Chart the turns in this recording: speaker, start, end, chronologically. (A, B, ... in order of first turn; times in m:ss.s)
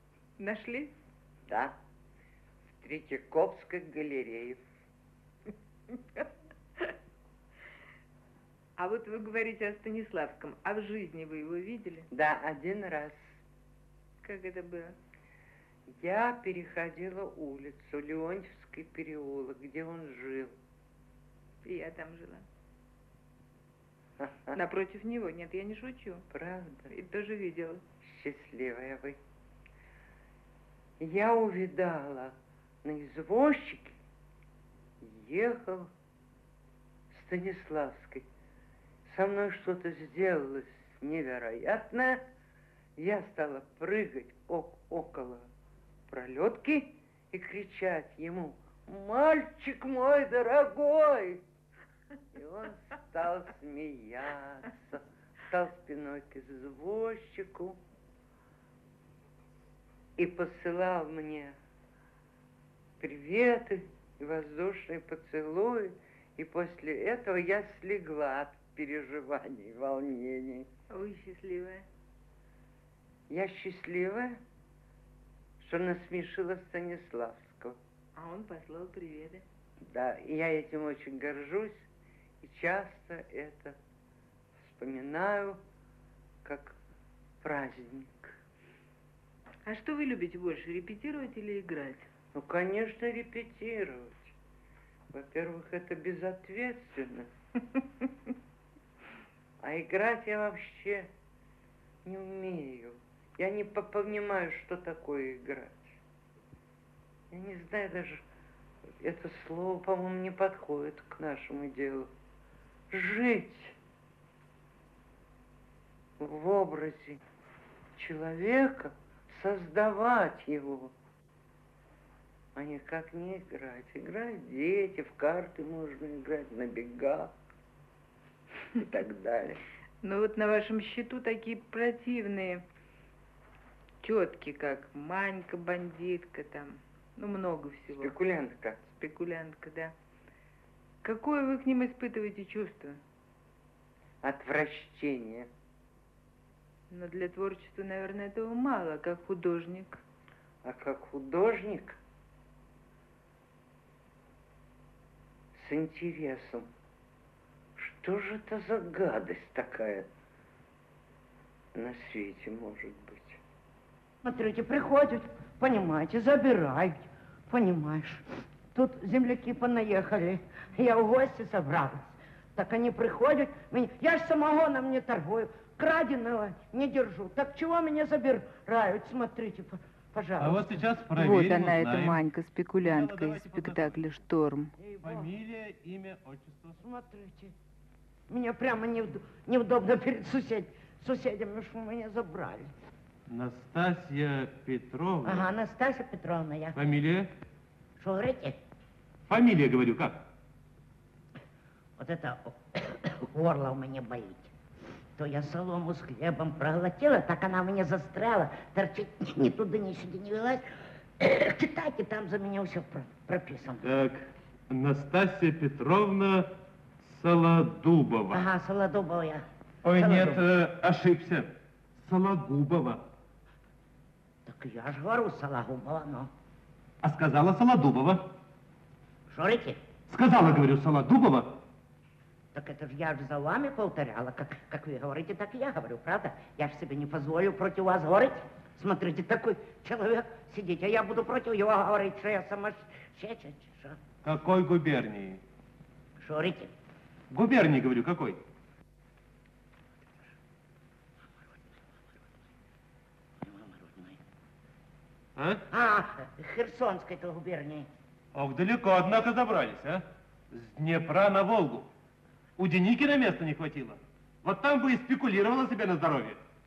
0:00.4-0:00.9 A
0:01.5-0:01.8 B
0:02.8-0:04.6 B
0:08.8-0:12.1 A
0:12.1-0:13.2 B
0:14.2-0:15.0 A
0:15.9-0:20.6 B
0:21.6-0:22.4 A
0:24.2-0:24.6 B
0:24.5-0:26.3 A
0:26.3-0:26.9 B
0:26.9-0:27.8 A
0:28.0-0:29.2 B
0:31.0-0:34.0 B
0:35.0-0:35.9 B
0:37.1-0:38.3 B
0:39.0-0:42.2 B
0:43.0-0:45.5 B
0:46.1-0:51.4 B
0:52.3-0:57.8 B
1:00.2-1:01.6 B
1:03.0-1:10.7 B
1:10.9-1:11.8 A
1:13.3-1:14.4 B
1:15.6-1:17.8 B
1:18.2-1:19.4 A
1:19.8-1:21.8 B
1:22.4-1:23.8 B
1:24.6-1:25.6 B
1:26.4-1:26.8 B
1:27.4-1:28.4 B
1:29.6-1:32.0 A
1:32.3-1:34.3 B
1:35.1-1:37.3 B
1:39.6-1:41.1 B
1:42.0-1:46.0 B
1:47.3-1:48.2 B
1:49.0-1:52.1 B
1:52.9-1:53.8 B
1:56.2-1:57.2 B
1:58.0-2:00.9 B
2:02.5-2:07.3 B
2:08.7-2:09.6 B
2:10.0-2:12.6 A
2:14.0-2:18.1 A
2:17.9-2:18.8 B
2:19.0-2:19.9 A
2:21.0-2:23.0 A
2:24.2-2:25.5 B
2:26.9-2:30.0 A
2:30.6-2:32.0 B
2:35.5-2:36.7 B
2:37.8-2:40.1 B
2:41.7-2:43.4 B
2:44.2-3:00.6 C
3:00.4-3:02.2 D
3:01.1-3:04.7 A
3:02.8-3:04.0 D
3:04.8-3:05.3 C
3:05.0-3:06.8 D
3:06.8-3:07.6 C
3:08.3-3:12.7 C
3:13.3-3:15.5 D
3:15.2-3:16.8 C
3:16.7-3:17.3 D
3:18.0-3:18.6 C
3:19.3-3:20.2 D
3:22.0-3:24.5 C
3:25.2-3:30.6 C
3:31.2-3:33.9 C
3:33.8-3:38.5 D
3:38.3-3:40.4 C
3:39.8-3:43.0 D
3:44.4-3:46.3 C
3:47.0-3:48.3 D
3:49.3-3:49.8 C
3:50.1-3:51.6 D
3:52.5-4:04.0 C
4:04.2-4:05.4 D
4:06.2-4:06.7 C
4:07.3-4:08.4 D
4:11.4-4:11.8 C
4:13.4-4:14.2 C
4:15.4-4:15.6 D
4:15.7-4:17.9 C
4:18.3-4:21.9 D
4:22.6-4:26.4 D